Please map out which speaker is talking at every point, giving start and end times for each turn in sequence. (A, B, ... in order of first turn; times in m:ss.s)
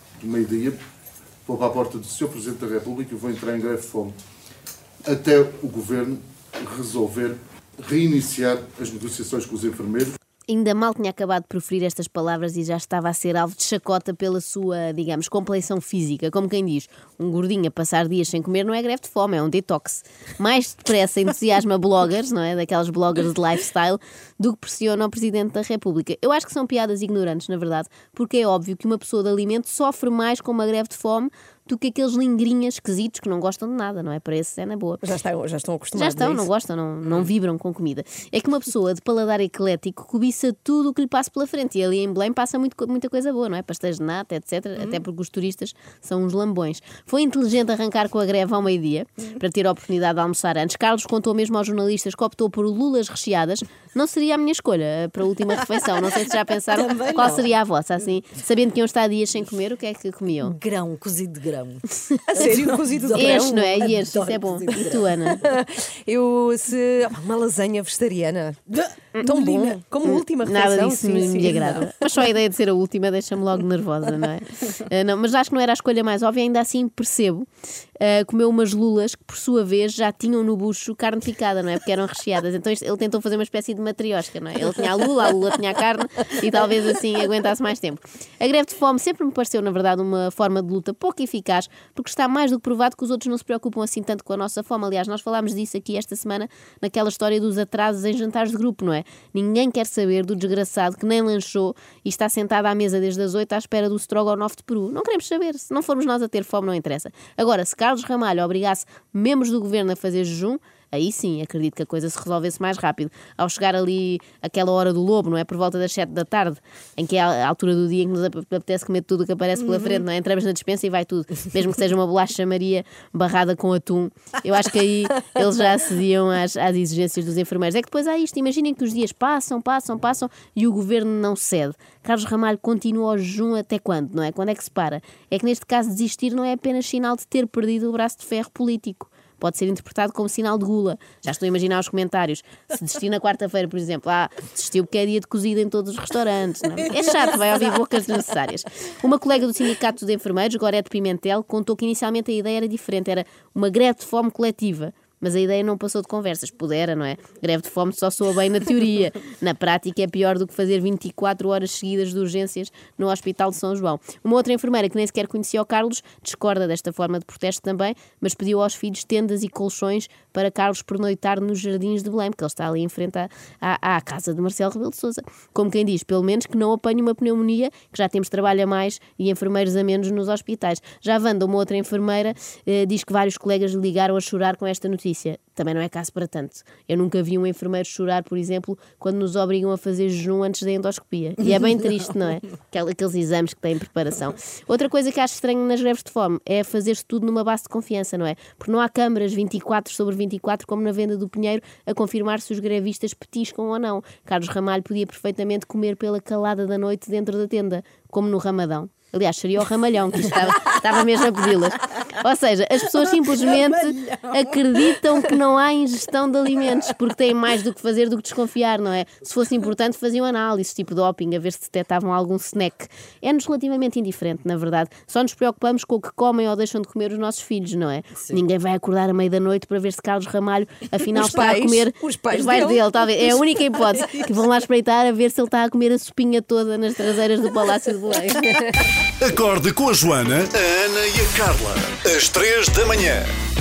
0:00.2-0:00.8 A
0:01.4-0:04.2 A
0:05.0-0:10.1 A
0:10.5-0:35.0 B
0:35.0-0:36.5 C
0:35.9-1:00.6 B
0:56.8-0:57.5 D
1:00.4-1:05.3 D
1:02.0-1:02.5 B
1:02.3-1:03.7 C
1:03.1-1:05.4 B
1:05.4-1:11.9 C
1:09.1-1:17.5 B
1:18.0-3:58.8 B
3:51.1-3:54.0 C
3:59.2-4:03.3 E